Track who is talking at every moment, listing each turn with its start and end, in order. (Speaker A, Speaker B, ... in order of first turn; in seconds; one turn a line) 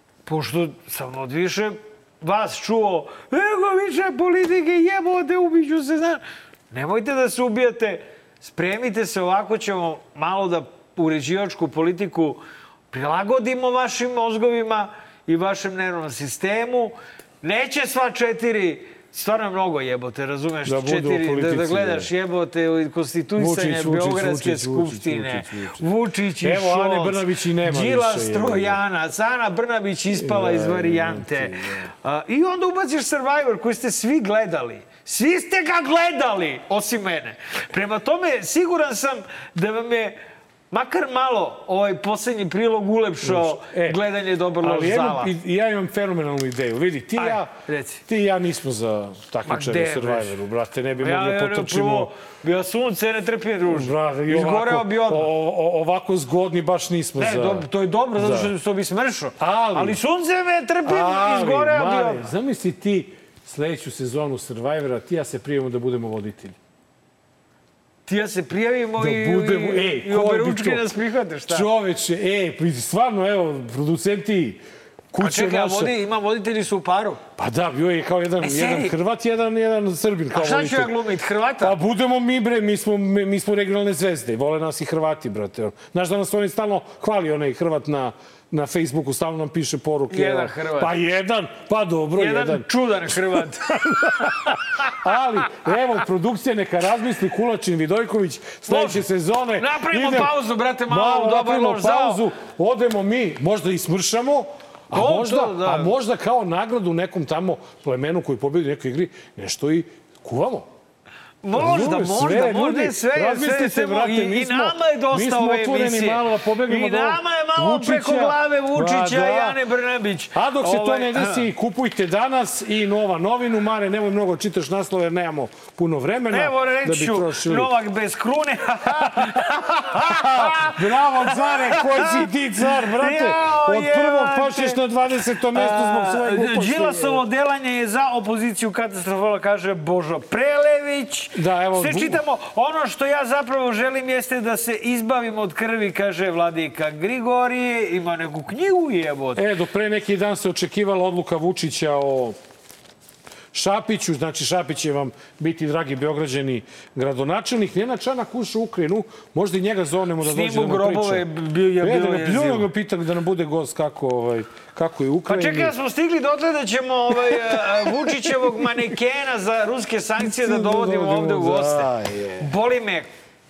Speaker A: 0.2-40.1
Speaker B: 20.6-22.1
Speaker B: 23.4-25.8
Speaker B: 26.4-28.8
Speaker B: 30.1-31.9
Speaker A: 40.7-45.3
Speaker B: 43.2-44.0
Speaker B: 44.6-47.5
Speaker A: 47.2-48.0
Speaker B: 48.1-52.1
Speaker A: 49.4-50.3
Speaker A: 51.0-55.3
Speaker B: 53.7-58.5
Speaker A: 57.2-62.2
Speaker B: 59.4-60.0
Speaker B: 60.8-66.6
Speaker A: 68.0-71.7
Speaker B: 69.0-70.9
Speaker B: 71.5-75.9
Speaker A: 75.2-77.2
Speaker B: 77.4-81.0
Speaker A: 78.4-78.9
Speaker A: 80.3-81.8
Speaker B: 81.6-100.3
Speaker A: 90.1-90.9
Speaker A: 92.2-94.9
Speaker A: 98.7-99.0
Speaker A: 99.6-102.2
Speaker B: 100.9-110.7
Speaker A: 104.9-105.9
Speaker A: 111.4-121.5
Speaker B: 111.5-119.6
Speaker B: 120.3-127.7
Speaker A: 126.3-134.8
Speaker B: 129.0-129.4
Speaker B: 130.0-137.2
Speaker A: 135.5-149.4
Speaker B: 141.3-142.2
Speaker B: 149.3-152.4
Speaker B: 153.5-161.2
Speaker A: 160.2-162.7
Speaker B: 161.8-165.7
Speaker A: 165.3-173.1
Speaker B: 167.4-168.3
Speaker B: 170.2-172.5